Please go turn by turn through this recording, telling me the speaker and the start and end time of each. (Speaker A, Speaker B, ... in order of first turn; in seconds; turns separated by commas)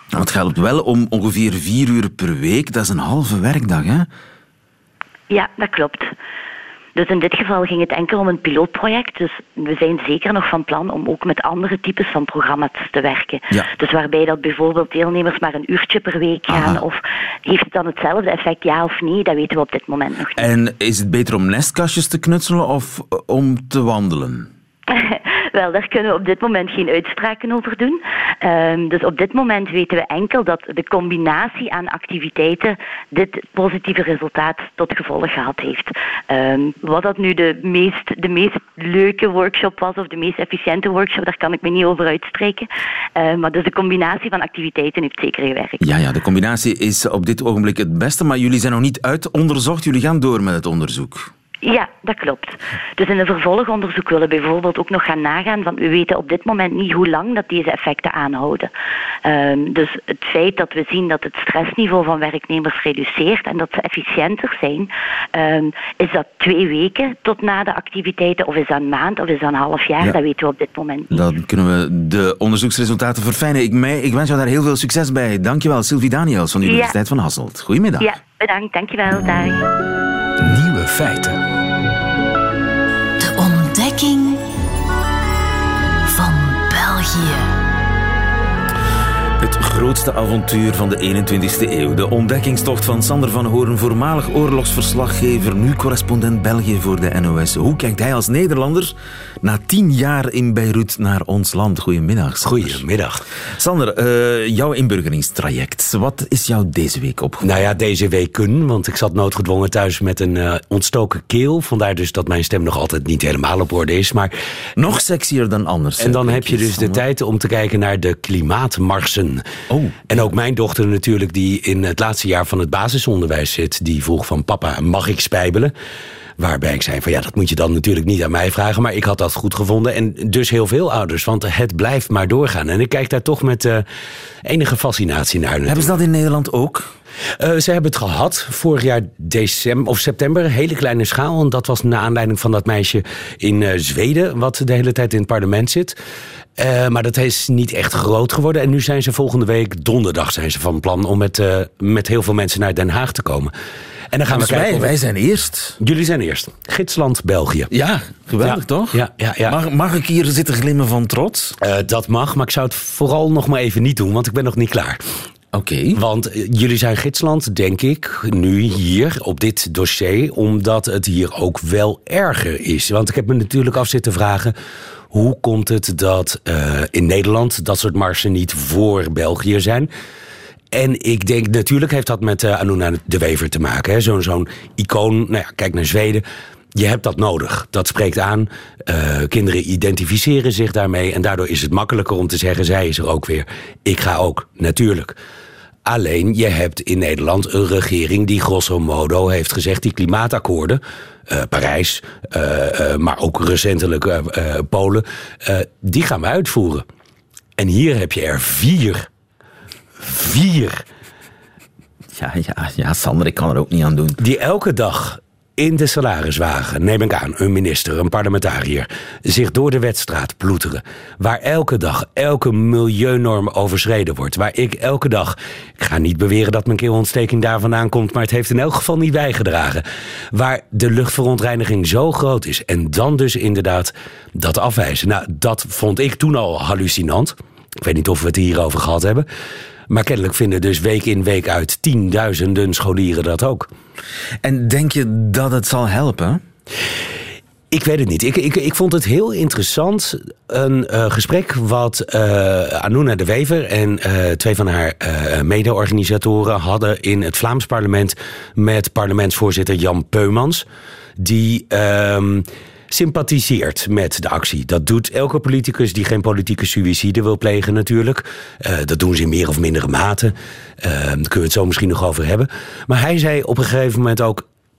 Speaker A: 0.1-4.1, Speaker B: 5.3-6.1, Speaker B: 7.0-20.5, Speaker A: 16.5-16.8, Speaker A: 20.4-24.5, Speaker B: 24.9-45.8, Speaker A: 45.8-51.3, Speaker B: 51.6-58.7, Speaker B: 59.2-71.2, Speaker A: 71.1-78.1, Speaker B: 76.6-77.0, Speaker B: 78.0-79.7, Speaker A: 80.5-81.4, Speaker C: 83.2-84.4, Speaker C: 86.1-87.5, Speaker A: 89.4-102.8, Speaker D: 102.4-103.3, Speaker A: 103.6-107.7, Speaker D: 107.4-114.3, Speaker A: 114.8-117.0, Speaker D: 116.0-119.4, Speaker A: 119.7-120.2, Speaker D: 120.1-125.7, Speaker D: 126.4-133.8, Speaker D: 134.4-136.0, Speaker A: 135.7-136.9, Speaker D: 137.4-146.0, Speaker D: 146.6-153.5, Speaker D: 154.1-154.9, Speaker A: 154.3-155.8, Speaker D: 155.8-157.7, Speaker A: 157.7-161.6, Speaker D: 158.4-159.6, Speaker D: 161.6-165.0, Speaker A: 165.5-166.0, Speaker D: 165.9-174.5, Speaker D: 175.1-179.9, Speaker D: 180.7-195.2, Speaker D: 195.8-206.8, Speaker D: 207.6-209.1, Speaker D: 210.0-210.8, Speaker A: 212.1-214.2, Speaker D: 214.2-239.3, Speaker D: 239.9-243.7, Speaker A: 244.4-246.4, Speaker D: 247.7-260.6, Speaker D: 261.2-274.4